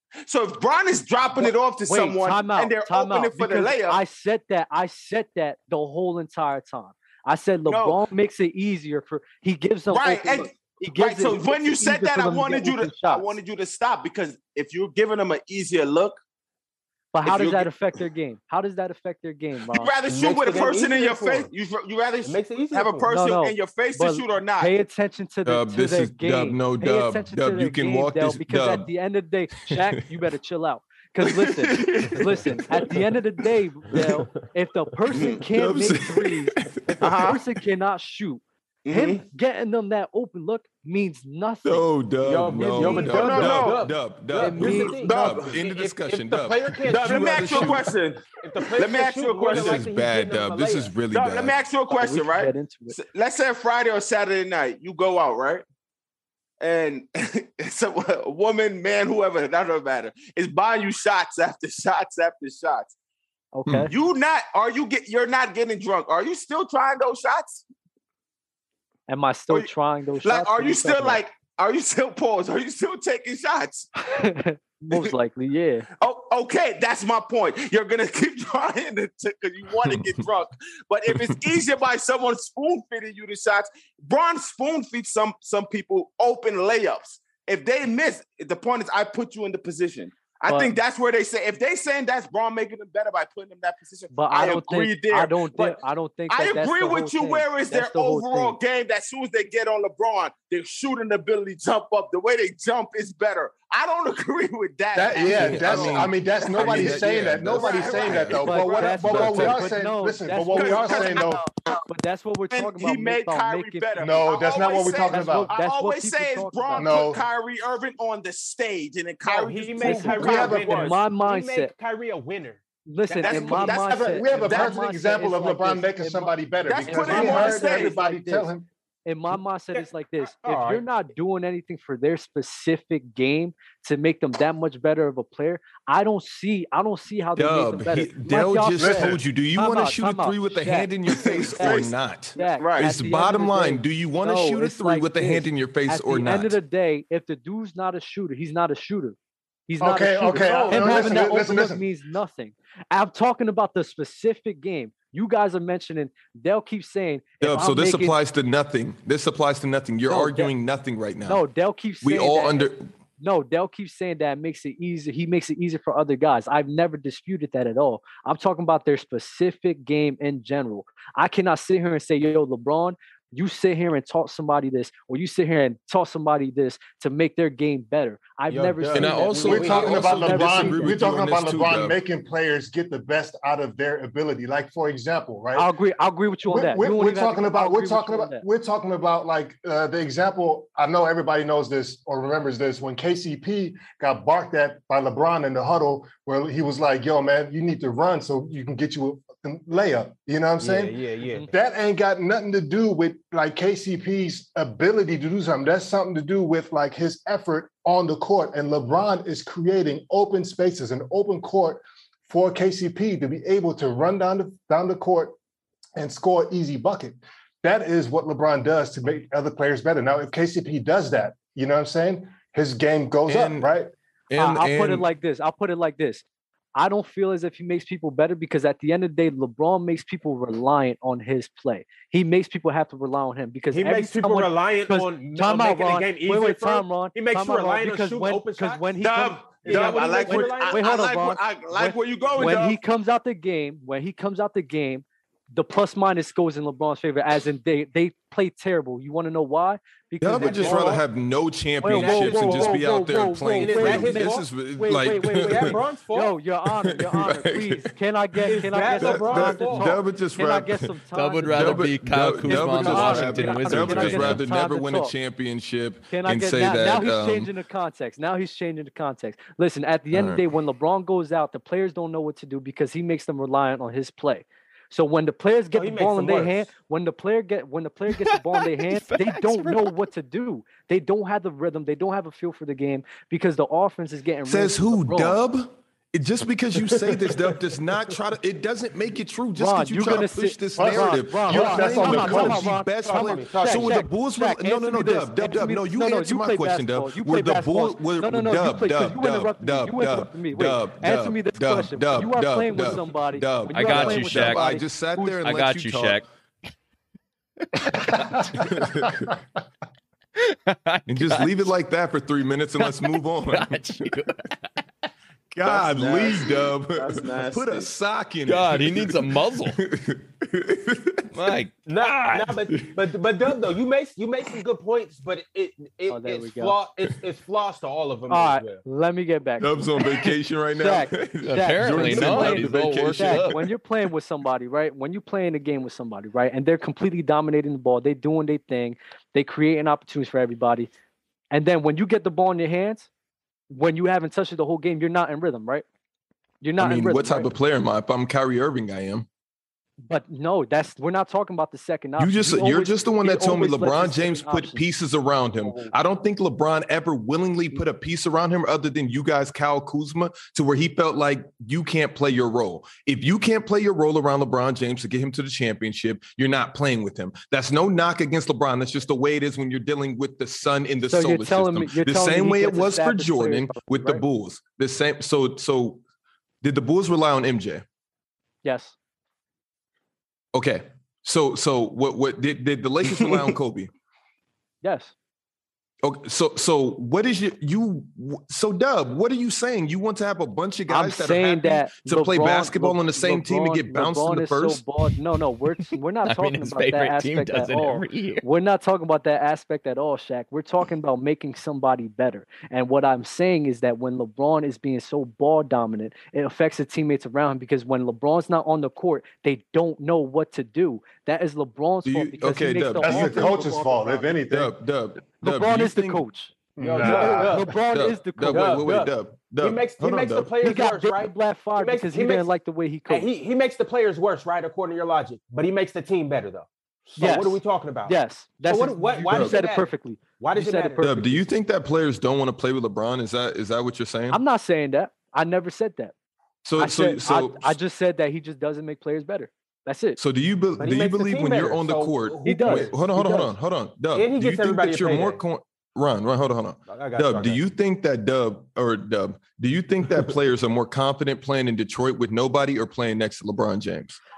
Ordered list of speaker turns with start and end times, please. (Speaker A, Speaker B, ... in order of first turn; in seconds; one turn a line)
Speaker A: 0.3-4.0
Speaker B: 1.4-13.3
Speaker A: 7.7-8.0
Speaker A: 9.9-16.2
Speaker B: 17.1-19.9
Speaker A: 17.2-17.7
Speaker A: 19.7-24.7
Speaker C: 20.1-21.5
Speaker C: 22.2-23.1
Speaker B: 23.1-36.5
Speaker D: 25.5-28.9
Speaker D: 29.7-30.1
Speaker A: 31.2-32.2
Speaker C: 33.9-34.5
Speaker A: 35.1-35.4
Speaker D: 35.4-37.1
Speaker A: 37.0-37.4
Speaker B: 37.1-41.9
Speaker A: 38.9-39.2
Speaker D: 41.6-47.9
Speaker C: 42.2-47.9
Speaker B: 42.5-43.3
Speaker A: 42.9-43.8
Speaker B: 44.4-45.1
Speaker A: 45.0-45.5
Speaker A: 46.9-48.2
Speaker C: 48.4-50.9
Speaker A: 48.7-49.9
Speaker D: 49.5-51.5
Speaker A: 51.1-55.6
Speaker B: 51.9-53.0
Speaker A: 56.6-62.9
Speaker B: 63.5-63.9
Speaker A: 63.9-67.7
Speaker B: 69.1-71.2
Speaker A: 70.2-73.9
Speaker B: 74.0-75.9
Speaker A: 76.0-109.1
Speaker B: 90.5-90.7
Speaker B: 94.1-98.6
Speaker E: 105.0-111.4
Speaker D: 105.2-108.5
Speaker B: 108.4-114.0
Speaker D: 109.0-109.7
Speaker A: 110.5-111.8
Speaker A: 112.5-121.0
Speaker E: 114.0-115.5
Speaker B: 115.1-117.1
Speaker E: 116.8-117.2
Speaker C: 119.2-123.6
Speaker B: 119.8-121.7
Speaker E: 119.8-120.9
Speaker B: 122.9-128.5
Speaker A: 123.2-124.8
Speaker E: 123.6-128.7
Speaker A: 126.7-128.0
Speaker B: 129.1-149.2
Speaker C: 130.3-130.8
Speaker D: 137.4-146.6
Speaker E: 138.8-139.2
Speaker A: 141.2-142.9
Speaker B: 149.7-158.2
Speaker E: 149.8-151.8
Speaker C: 150.5-150.8
Speaker D: 157.4-161.4
Speaker B: 160.1-160.5
Speaker B: 161.2-180.9
Speaker D: 162.0-162.9
Speaker C: 178.5-180.6
Speaker D: 178.9-182.0
Speaker E: 179.5-185.7
Speaker B: 185.6-188.4
Speaker E: 186.5-201.0
Speaker C: 200.6-201.5
Speaker E: 201.5-215.3
Speaker E: 216.0-223.9
Speaker D: 223.3-223.7
Speaker D: 224.3-225.1
Speaker B: 224.4-226.2
Speaker B: 226.8-251.0
Speaker C: 233.7-240.8
Speaker A: 239.0-242.8
Speaker D: 250.2-255.8
Speaker C: 250.3-251.0
Speaker B: 251.8-265.1
Speaker C: 251.9-256.4
Speaker D: 256.8-260.9
Speaker C: 258.5-260.0
Speaker F: 261.1-264.4
Speaker D: 261.5-267.5
Speaker B: 266.1-285.4
Speaker D: 270.1-270.4
Speaker C: 275.7-276.7
Speaker F: 278.1-279.9
Speaker D: 284.5-306.2
Speaker C: 286.8-287.6
Speaker B: 289.6-305.5
Speaker E: 290.8-292.7
Speaker C: 292.0-294.2
Speaker F: 303.7-304.7
Speaker F: 305.4-306.3
Speaker F: 307.7-309.2
Speaker D: 308.4-309.4
Speaker F: 310.4-311.5
Speaker D: 311.1-314.2
Speaker F: 312.8-314.6
Speaker D: 315.5-321.5
Speaker A: 315.6-317.9
Speaker F: 318.5-319.8
Speaker F: 321.3-322.6
Speaker C: 321.9-328.8
Speaker B: 326.1-326.8
Speaker B: 328.3-340.9
Speaker D: 329.6-333.7
Speaker F: 331.4-333.6
Speaker B: 341.5-343.1
Speaker B: 343.7-345.9
Speaker B: 346.6-347.5
Speaker D: 346.8-349.3
Speaker B: 350.1-354.8
Speaker D: 352.2-376.0
Speaker B: 355.6-355.9
Speaker B: 371.1-374.2
Speaker D: 376.6-377.8
Speaker B: 378.6-378.9
Speaker D: 380.5-383.9
Speaker B: 384.8-385.1
Speaker D: 386.0-394.8
Speaker B: 390.9-414.4
Speaker F: 396.2-398.4
Speaker D: 412.1-413.6
Speaker E: 413.0-414.8
Speaker D: 414.5-416.2
Speaker B: 415.4-419.0
Speaker E: 416.8-417.7
Speaker C: 416.8-417.7
Speaker D: 417.0-417.4
Speaker D: 417.9-420.5
Speaker C: 418.4-422.5
Speaker B: 420.6-423.3
Speaker C: 423.1-431.2
Speaker B: 427.2-431.4
Speaker D: 429.3-429.6
Speaker D: 431.0-434.4
Speaker B: 434.3-436.1
Speaker D: 436.6-437.8
Speaker B: 436.8-440.2
Speaker D: 440.2-454.2
Speaker C: 440.8-443.6
Speaker B: 442.4-443.0
Speaker C: 444.1-445.4
Speaker C: 446.9-447.6